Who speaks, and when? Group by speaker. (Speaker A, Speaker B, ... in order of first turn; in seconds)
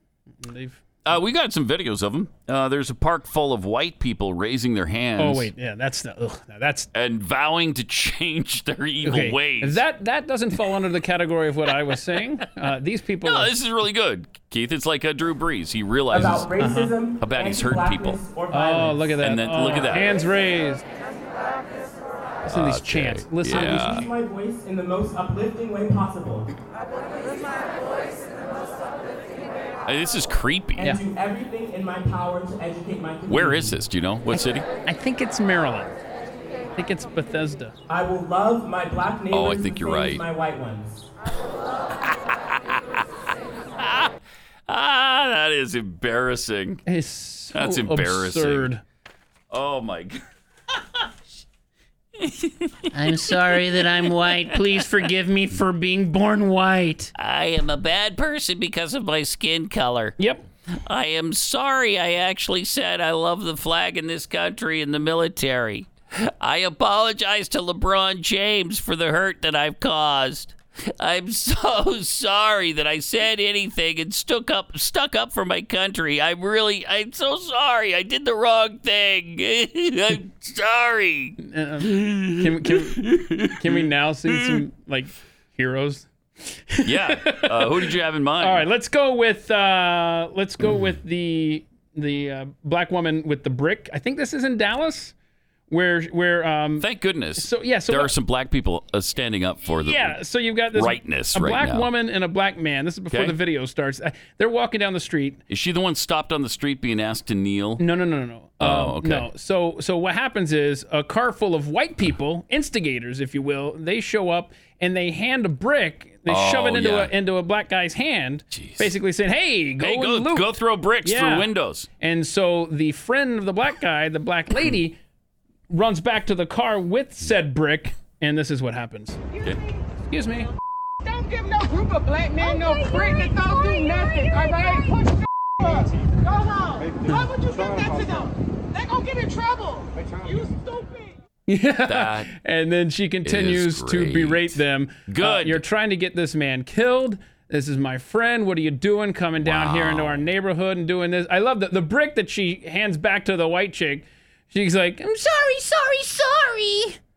Speaker A: 0.4-0.8, 5.2-6.9, 9.0-13.5, 16.6-16.9, 18.5-20.8, 22.4-24.1, 34.3-36.0, 36.8-37.8, 46.9-48.8, 52.9-57.1, 60.2-60.5, 81.4-95.1, 95.7-98.1, 99.8-105.4, 107.8-125.0, 125.7-129.2, 130.1-130.5, 141.5-156.9
Speaker B: 1.1-5.5, 6.9-9.8, 13.2-16.5, 17.2-18.2, 19.2-20.1, 22.5-24.1, 29.9-31.0, 33.3-34.7, 39.3-40.3, 42.0-43.0, 43.8-44.1, 44.7-46.8, 47.5-48.7, 49.5-50.2, 52.2-54.9, 57.1-60.2, 60.8-84.6, 86.8-88.7, 96.8-100.2, 100.7-101.9, 103.1-103.4, 105.5-107.8, 108.6-109.3, 116.3-117.1, 118.5-118.9, 119.8-121.9, 141.8-142.3, 143.2-145.6, 149.4-150.2
Speaker C: 16.1-19.0, 23.7-26.5, 30.8-33.7, 37.9-41.0
Speaker D: 131.1-135.1, 135.6-141.1